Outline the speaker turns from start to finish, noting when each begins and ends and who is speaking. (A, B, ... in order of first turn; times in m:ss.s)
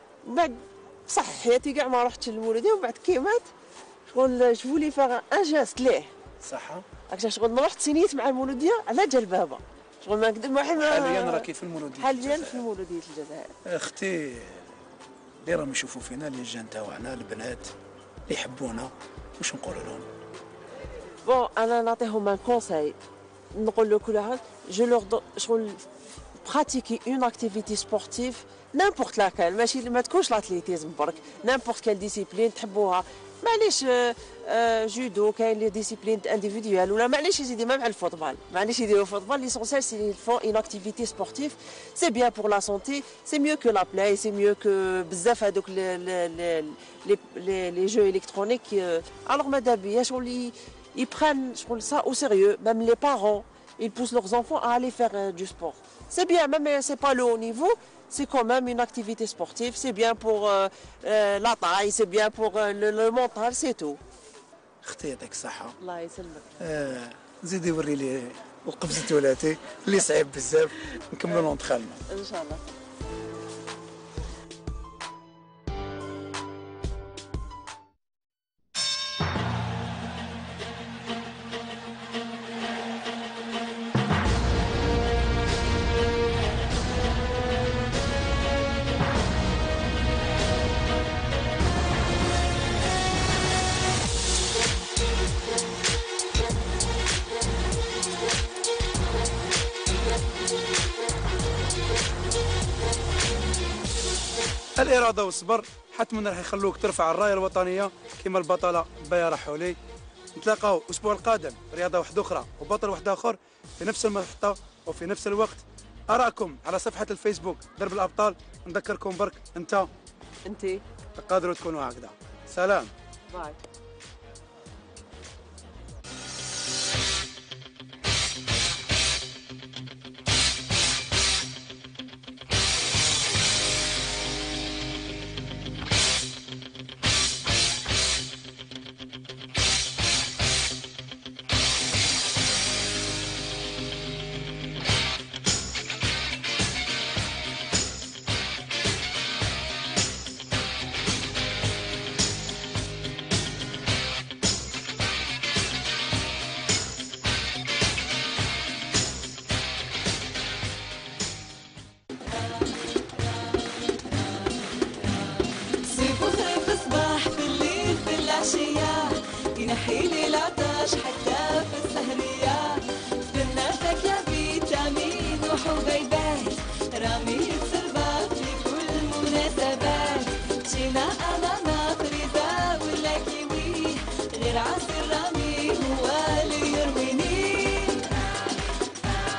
0:00.2-0:03.5 A
0:04.1-0:06.1 A
0:06.4-0:06.9 B
0:07.1-0:11.5 A
0:10.8-0:12.6 B
0:12.0-0:13.5 A
0:13.7-0:14.7 B
0:15.4-0:17.7 B
0:18.3-0:20.1 B
0:21.2-0:23.0 A
0:23.5-0:25.8 A
0:26.4-1:04.0 A
1:04.8-1:05.8 B
1:05.8-1:06.5 A
1:06.6-1:12.0 B
1:12.1-1:12.6 A
1:44.8-1:49.8 B
1:50.4-1:59.9 B
2:00.5-2:00.8 A
2:01.2-2:02.9 B
2:03.3-2:03.6 A
2:45.8-3:08.2 C